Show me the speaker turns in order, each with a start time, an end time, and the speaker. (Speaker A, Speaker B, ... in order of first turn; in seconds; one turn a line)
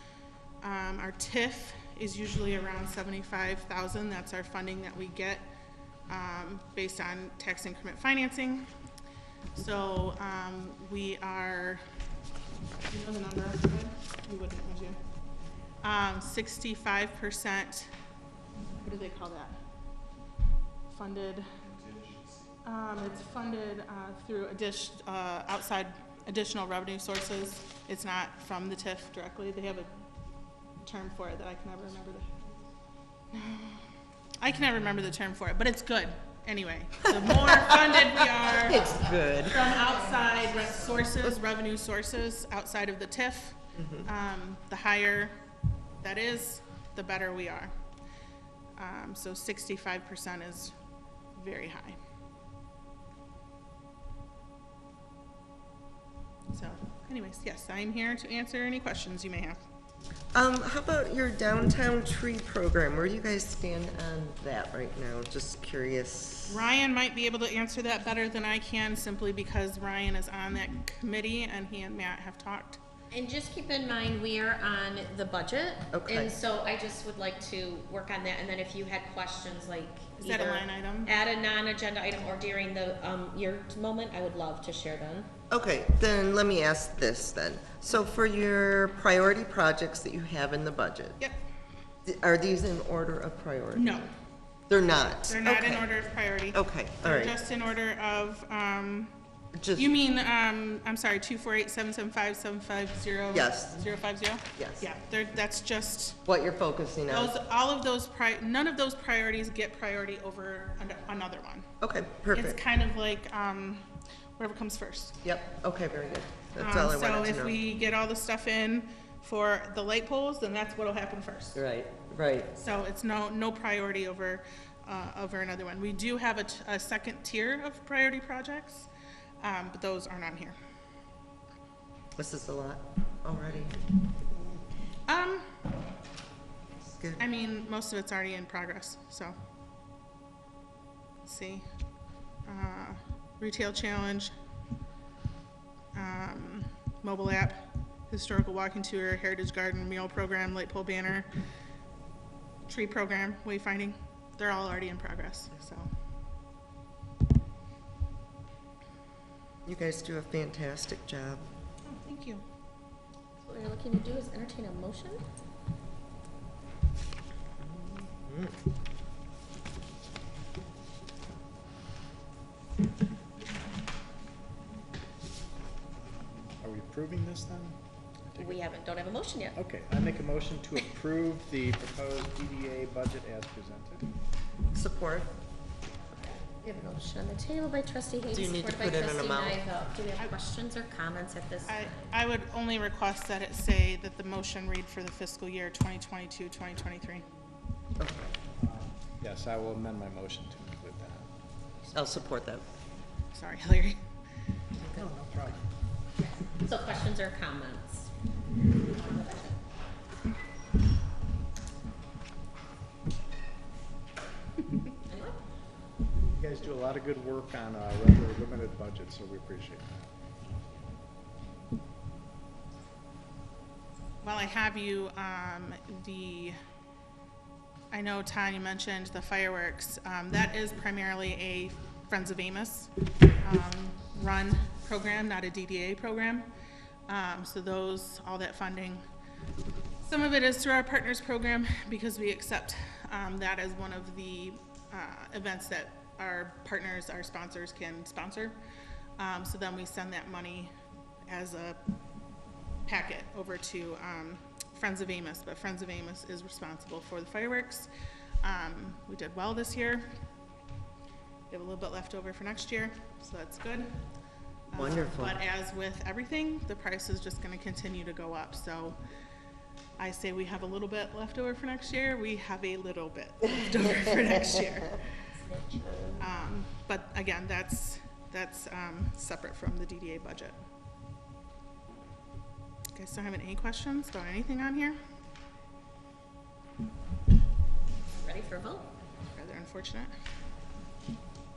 Speaker A: 0.6-5.5
Speaker A: 6.1-8.7
Speaker A: 9.6-11.8
Speaker A: 12.9-15.0
Speaker A: 15.8-17.9
Speaker A: 18.8-19.6
Speaker A: 20.9-21.5
Speaker A: 22.6-29.9
Speaker A: 30.8-32.4
Speaker A: 33.3-33.9
Speaker A: 34.4-45.4
Speaker B: 38.4-39.8
Speaker B: 43.8-44.1
Speaker A: 46.0-47.7
Speaker A: 48.8-50.8
Speaker A: 51.4-52.0
Speaker A: 56.5-59.6
Speaker B: 60.3-66.6
Speaker A: 66.5-72.8
Speaker C: 73.1-85.3
Speaker B: 75.9-76.3
Speaker A: 80.2-81.1
Speaker B: 85.5-91.2
Speaker B: 92.0-94.0
Speaker A: 93.8-94.1
Speaker B: 94.7-95.9
Speaker A: 95.3-99.2
Speaker B: 96.5-97.4
Speaker B: 99.5-99.9
Speaker A: 99.8-106.2
Speaker B: 103.3-103.8
Speaker B: 104.5-104.8
Speaker B: 106.2-107.4
Speaker A: 107.1-111.7
Speaker B: 111.8-112.6
Speaker A: 112.3-115.2
Speaker B: 115.2-117.6
Speaker A: 116.6-121.6
Speaker B: 121.5-122.5
Speaker A: 122.5-128.9
Speaker A: 129.4-130.6
Speaker B: 132.2-133.8
Speaker A: 135.1-135.6
Speaker B: 137.0-137.2
Speaker A: 137.2-139.3
Speaker A: 141.2-141.7
Speaker A: 142.5-144.3
Speaker A: 145.9-151.3
Speaker A: 152.7-155.9
Speaker B: 159.7-161.4
Speaker A: 161.8-162.4
Speaker C: 163.4-165.2
Speaker B: 167.6-168.6
Speaker D: 176.6-177.8
Speaker D: 178.3-178.6
Speaker C: 178.4-179.6
Speaker D: 179.5-184.1
Speaker B: 184.7-185.3
Speaker C: 186.1-191.9
Speaker B: 188.3-189.6
Speaker A: 191.7-197.2
Speaker B: 198.0-198.4
Speaker D: 198.6-201.3
Speaker B: 201.9-202.7
Speaker A: 203.3-204.0
Speaker D: 204.8-205.6
Speaker C: 206.2-208.1
Speaker C: 208.9-209.6
Speaker C: 215.1-215.4
Speaker D: 216.3-220.1
Speaker A: 224.2-226.6
Speaker A: 227.9-236.5
Speaker A: 237.1-239.0
Speaker A: 240.0-248.6
Speaker A: 249.2-250.7
Speaker A: 251.3-251.8
Speaker A: 252.9-257.9
Speaker A: 258.4-260.1
Speaker A: 261.5-264.0
Speaker A: 264.7-269.0
Speaker B: 264.7-265.4
Speaker A: 270.0-275.0
Speaker C: 275.4-276.2
Speaker A: 276.2-280.6
Speaker A: 282.9-285.0
Speaker C: 288.1-288.9
Speaker A: 289.3-290.1